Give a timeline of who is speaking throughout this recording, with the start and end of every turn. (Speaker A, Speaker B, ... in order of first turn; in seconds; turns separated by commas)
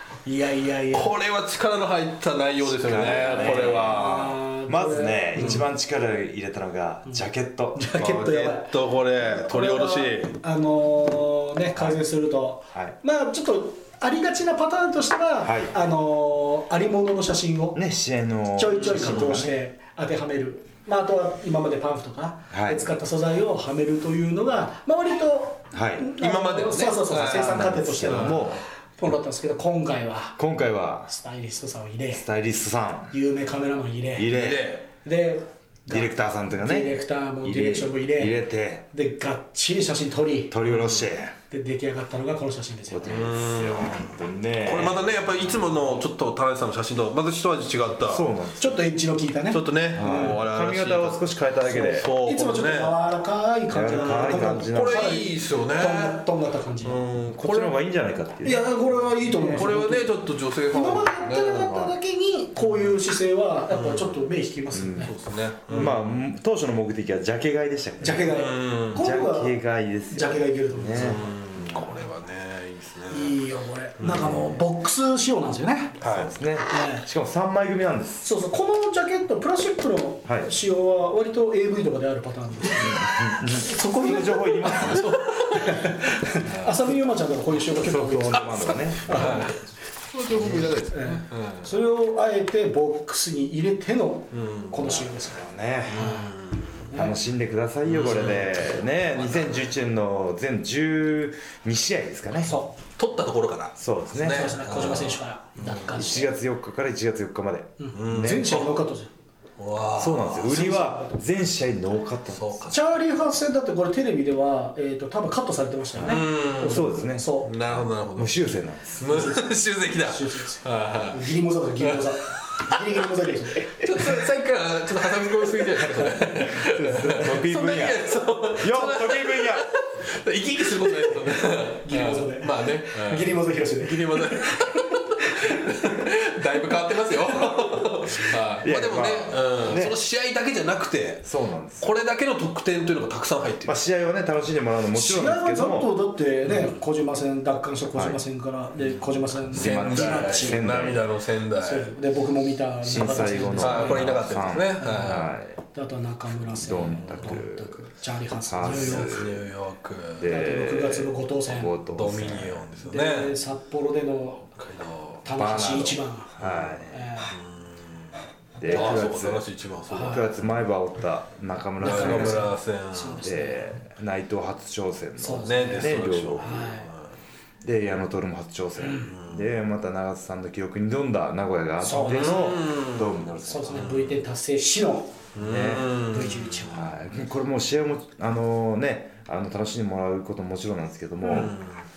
Speaker A: 0.2-1.1, Speaker B: 0.9-4.4, Speaker C: 2.7-7.9, Speaker A: 3.0-5.7, Speaker A: 7.8-17.8, Speaker B: 8.0-10.3, Speaker C: 15.4-15.7, Speaker C: 17.8-19.5, Speaker A: 18.6-30.4, Speaker B: 18.8-19.4, Speaker C: 22.5-22.9, Speaker C: 25.7-26.1, Speaker B: 26.2-28.6, Speaker C: 27.1-28.6, Speaker C: 30.4-31.1, Speaker A: 31.1-32.2, Speaker C: 32.1-33.1, Speaker A: 33.1-34.3, Speaker C: 34.2-34.8, Speaker B: 34.3-34.9, Speaker A: 35.0-38.4, Speaker C: 35.9-38.9, Speaker A: 38.9-40.6, Speaker C: 40.5-41.3, Speaker B: 40.7-41.1, Speaker A: 41.5-43.3, Speaker C: 42.9-45.2, Speaker B: 43.1-48.3, Speaker C: 48.1-48.8, Speaker A: 48.6-50.4, Speaker B: 49.5-53.0, Speaker C: 50.0-52.1, Speaker A: 51.7-57.0, Speaker C: 53.7-55.2, Speaker B: 53.9-56.2, Speaker B: 56.8-57.8, Speaker C: 57.4-58.6, Speaker A: 58.4-60.1, Speaker B: 59.5-61.8, Speaker A: 60.7-65.1, Speaker C: 61.7-62.0, Speaker B: 63.7-64.2, Speaker C: 64.7-65.1, Speaker B: 65.0-66.2, Speaker C: 65.7-68.4, Speaker A: 68.0-71.3, Speaker B: 68.2-69.1, Speaker C: 68.9-72.0, Speaker B: 70.9-73.4, Speaker A: 73.1-76.0, Speaker B: 74.0-74.5, Speaker C: 74.0-74.6, Speaker B: 76.0-76.3, Speaker C: 76.0-78.3, Speaker A: 76.7-77.0, Speaker A: 78.2-89.6, Speaker C: 82.8-85.2, Speaker B: 85.0-85.8, Speaker B: 86.4-86.9, Speaker C: 87.8-89.5, Speaker B: 88.3-89.6, Speaker B: 90.1-91.7, Speaker A: 90.5-96.3, Speaker B: 94.3-95.0, Speaker C: 95.2-96.2, Speaker B: 95.9-96.9, Speaker A: 96.9-97.2, Speaker C: 96.9-102.6, Speaker B: 97.9-99.7, Speaker A: 102.5-102.7, Speaker B: 103.0-106.2, Speaker C: 103.8-105.2, Speaker A: 104.2-106.3, Speaker C: 105.9-108.6, Speaker A: 107.8-109.1, Speaker B: 107.9-108.8, Speaker B: 109.6-110.5, Speaker C: 110.0-112.7, Speaker A: 110.3-111.2, Speaker B: 112.3-112.8, Speaker A: 112.7-117.5, Speaker C: 116.0-117.3, Speaker B: 116.0-116.9, Speaker B: 117.4-118.4, Speaker C: 118.2-119.3, Speaker B: 119.0-121.3, Speaker A: 119.1-123.9, Speaker B: 121.8-122.2, Speaker B: 123.8-143.8, Speaker C: 126.5-129.7, Speaker A: 131.0-136.0, Speaker C: 138.6-140.0, Speaker C: 141.2-141.9, Speaker C: 143.7-145.9, Speaker A: 144.9-150.9, Speaker C: 147.9-148.2, Speaker B: 149.5-151.9, Speaker C: 149.5-151.1, Speaker A: 151.6-154.2, Speaker C: 152.8-155.6, Speaker B: 153.6-155.3, Speaker A: 154.8-159.2, Speaker C: 156.5-157.8, Speaker B: 157.0-157.4, Speaker C: 158.5-159.4, Speaker B: 158.6-160.4, Speaker C: 160.2-162.7, Speaker A: 160.2-161.8, Speaker B: 161.9-163.4, Speaker A: 162.8-164.5, Speaker B: 164.6-165.8, Speaker A: 165.2-166.3, Speaker C: 165.4-167.2, Speaker B: 166.4-168.1, Speaker A: 166.9-167.4, Speaker C: 168.6-172.5, Speaker A: 168.6-169.0, Speaker B: 168.7-170.4, Speaker A: 169.9-170.2, Speaker B: 171.8-173.3, Speaker A: 171.8-173.7, Speaker C: 173.2-176.7, Speaker A: 175.2-176.9, Speaker B: 175.3-177.1, Speaker C: 177.6-184.0, Speaker A: 178.8-179.1, Speaker B: 178.9-179.5, Speaker A: 181.8-182.6, Speaker B: 182.0-183.2, Speaker A: 183.5-185.2, Speaker B: 183.7-184.2, Speaker B: 185.3-186.8, Speaker C: 185.4-185.9, Speaker A: 186.1-186.9, Speaker C: 186.7-191.6, Speaker B: 191.3-191.8